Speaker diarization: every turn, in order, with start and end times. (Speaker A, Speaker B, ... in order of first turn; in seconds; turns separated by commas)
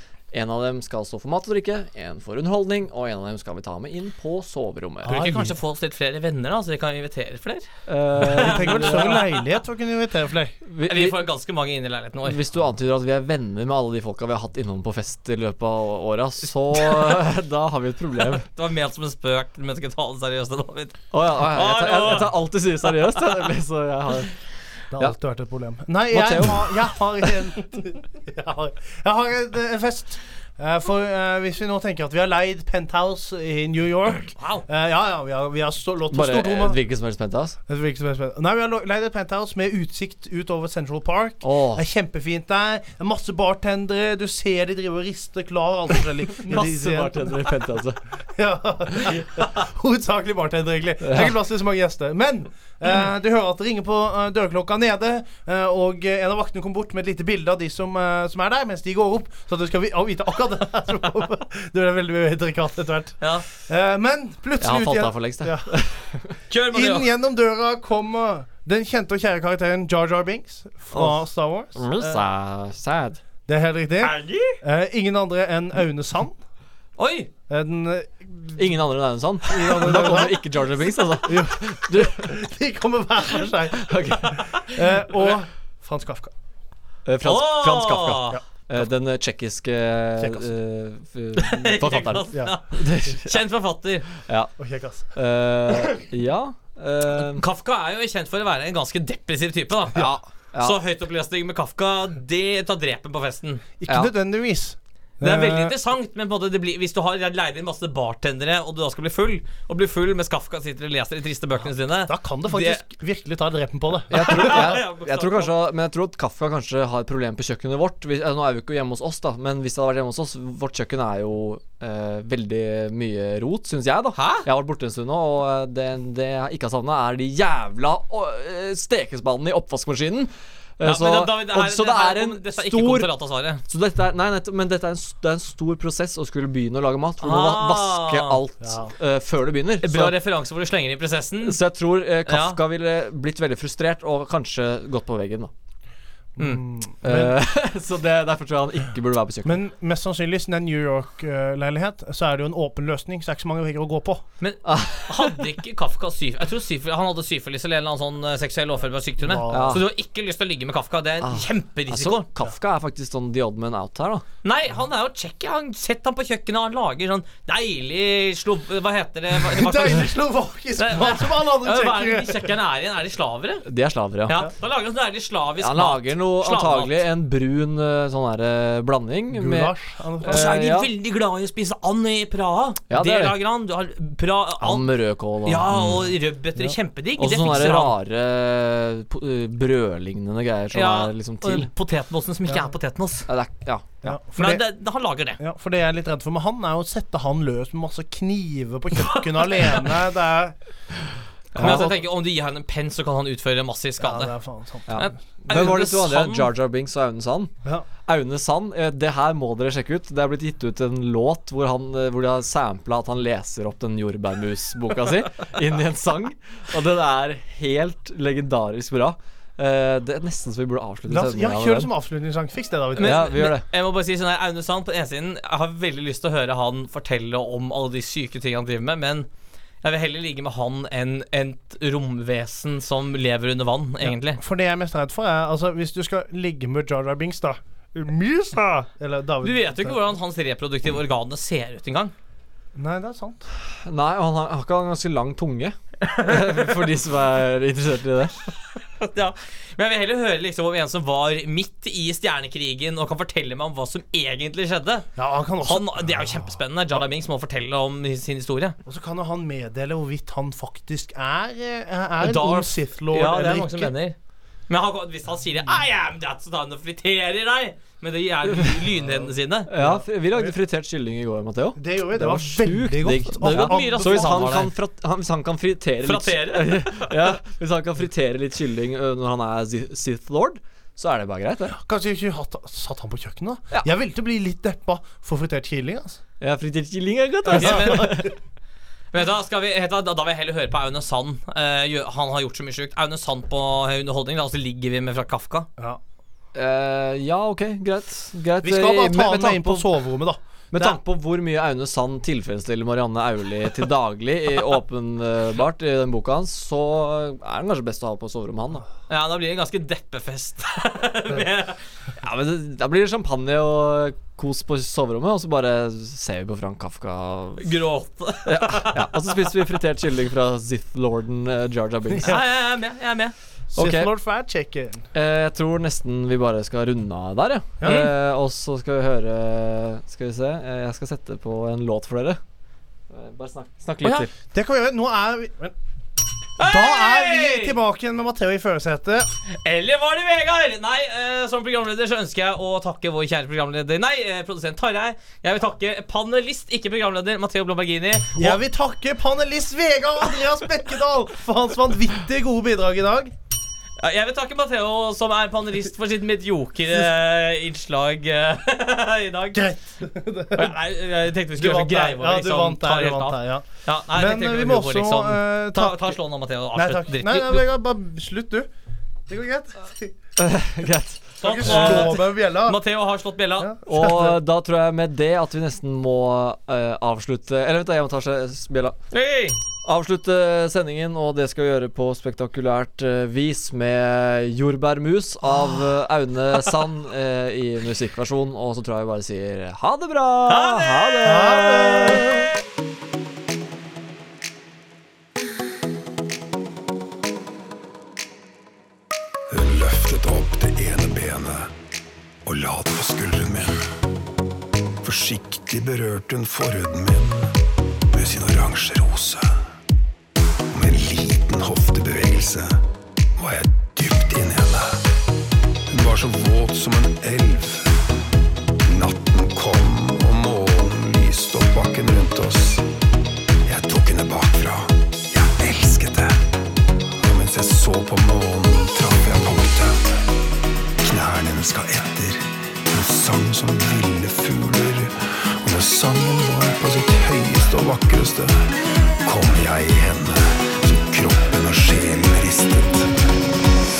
Speaker A: 0.3-5.3, Speaker B: 5.1-5.6, Speaker C: 5.1-7.7, Speaker A: 7.9-9.2, Speaker B: 8.2-10.6, Speaker C: 8.2-9.3, Speaker A: 10.7-11.3, Speaker C: 10.8-12.4, Speaker A: 12.2-18.5, Speaker C: 16.8-17.1, Speaker C: 18.4-22.3, Speaker A: 21.1-24.3, Speaker B: 24.9-36.8, Speaker A: 26.1-27.3, Speaker C: 34.4-34.6, Speaker A: 36.1-37.6, Speaker B: 37.7-47.5, Speaker A: 41.4-41.9, Speaker A: 46.4-48.0, Speaker B: 48.4-65.7, Speaker A: 51.0-51.4, Speaker A: 64.6-66.3, Speaker C: 66.5-67.1, Speaker B: 66.7-72.2, Speaker A: 70.9-71.2, Speaker A: 71.8-73.2, Speaker B: 73.5-76.4, Speaker C: 74.0-74.6, Speaker C: 77.0-77.3, Speaker B: 77.5-78.7, Speaker A: 78.5-82.3, Speaker B: 79.5-86.3, Speaker A: 83.7-84.4, Speaker C: 84.3-84.7, Speaker A: 87.1-93.4, Speaker C: 87.2-88.4, Speaker B: 88.3-88.9, Speaker B: 90.2-90.5, Speaker C: 91.4-94.1, Speaker B: 92.2-92.6, Speaker A: 94.2-94.5, Speaker B: 94.6-95.1, Speaker A: 95.1-97.5, Speaker C: 97.4-103.6, Speaker A: 100.0-100.8, Speaker B: 103.8-105.8, Speaker C: 105.2-112.8, Speaker B: 112.0-114.8, Speaker A: 114.1-133.1, Speaker C: 114.1-115.5, Speaker C: 124.2-124.5, Speaker C: 130.8-133.6, Speaker A: 133.6-140.2, Speaker C: 137.2-138.4, Speaker B: 138.6-138.9, Speaker C: 139.8-141.6, Speaker A: 141.4-145.5, Speaker C: 142.3-142.6, Speaker B: 146.4-147.4, Speaker A: 147.0-149.6, Speaker B: 149.4-154.2, Speaker C: 154.4-162.3, Speaker A: 154.7-155.4, Speaker B: 159.2-159.8, Speaker A: 159.5-159.8, Speaker A: 161.2-164.2, Speaker C: 164.4-170.1, Speaker B: 169.4-172.5, Speaker C: 170.8-173.7, Speaker A: 173.7-174.4, Speaker C: 174.3-177.0, Speaker A: 175.6-180.9, Speaker B: 179.3-180.6, Speaker C: 180.3-184.9, Speaker A: 182.9-183.4, Speaker A: 184.6-186.0, Speaker C: 185.4-187.9, Speaker A: 187.2-191.7, Speaker C: 190.7-193.3, Speaker A: 193.3-194.1, Speaker B: 194.0-194.6, Speaker C: 194.4-195.4, Speaker B: 195.4-200.6, Speaker C: 199.0-199.8, Speaker A: 201.5-201.9, Speaker B: 201.6-202.0, Speaker C: 201.6-204.3, Speaker B: 204.0-205.1, Speaker A: 204.9-207.5, Speaker C: 204.9-206.5, Speaker A: 208.1-221.9, Speaker B: 221.1-223.3, Speaker C: 223.0-229.3, Speaker A: 223.0-223.7, Speaker C: 229.8-234.4, Speaker B: 234.1-240.0, Speaker C: 239.4-242.1, Speaker B: 242.8-243.5, Speaker A: 243.8-248.4, Speaker C: 246.1-246.8, Speaker C: 249.0-255.1, Speaker B: 255.2-256.6, Speaker C: 255.6-258.8, Speaker B: 258.9-263.9, Speaker C: 262.2-264.2, Speaker C: 264.7-269.7, Speaker A: 268.5-268.8, Speaker B: 269.0-270.6, Speaker A: 269.7-281.8, Speaker B: 271.8-274.7, Speaker C: 273.4-274.7, Speaker C: 276.0-277.3, Speaker B: 281.7-286.2, Speaker A: 286.4-288.3, Speaker C: 287.5-288.2, Speaker B: 287.5-288.3, Speaker C: 289.1-295.7, Speaker A: 296.6-299.9, Speaker B: 298.6-301.0, Speaker A: 300.7-308.9, Speaker C: 309.1-311.8, Speaker A: 312.2-317.8, Speaker C: 317.6-319.5, Speaker A: 318.5-322.4, Speaker B: 322.1-322.4, Speaker C: 322.2-323.3, Speaker B: 323.7-325.1, Speaker A: 323.8-324.1, Speaker A: 325.1-332.4, Speaker B: 327.8-328.1, Speaker C: 327.8-328.1, Speaker A: 333.1-334.3, Speaker C: 334.0-334.3, Speaker B: 334.5-335.8, Speaker C: 336.6-337.8, Speaker B: 336.6-339.3, Speaker C: 339.5-348.6, Speaker B: 348.4-353.4, Speaker C: 354.0-359.7, Speaker B: 359.5-360.8, Speaker C: 360.6-367.6, Speaker B: 361.6-366.2, Speaker B: 366.7-368.7, Speaker B: 369.3-370.1, Speaker A: 370.4-372.1, Speaker C: 371.4-373.7, Speaker B: 371.4-372.8, Speaker B: 373.6-374.4, Speaker A: 373.9-379.0, Speaker C: 379.1-379.6, Speaker A: 379.9-392.2, Speaker C: 390.5-392.4, Speaker B: 391.2-392.3, Speaker D: 399.5-401.7, Speaker D: 402.4-403.8, Speaker D: 405.0-407.5, Speaker D: 408.1-409.5, Speaker D: 410.7-412.8, Speaker D: 413.4-415.0, Speaker D: 415.9-417.9, Speaker D: 418.8-422.9, Speaker D: 423.6-426.4, Speaker D: 427.2-430.2, Speaker D: 431.0-438.7, Speaker D: 439.2-443.1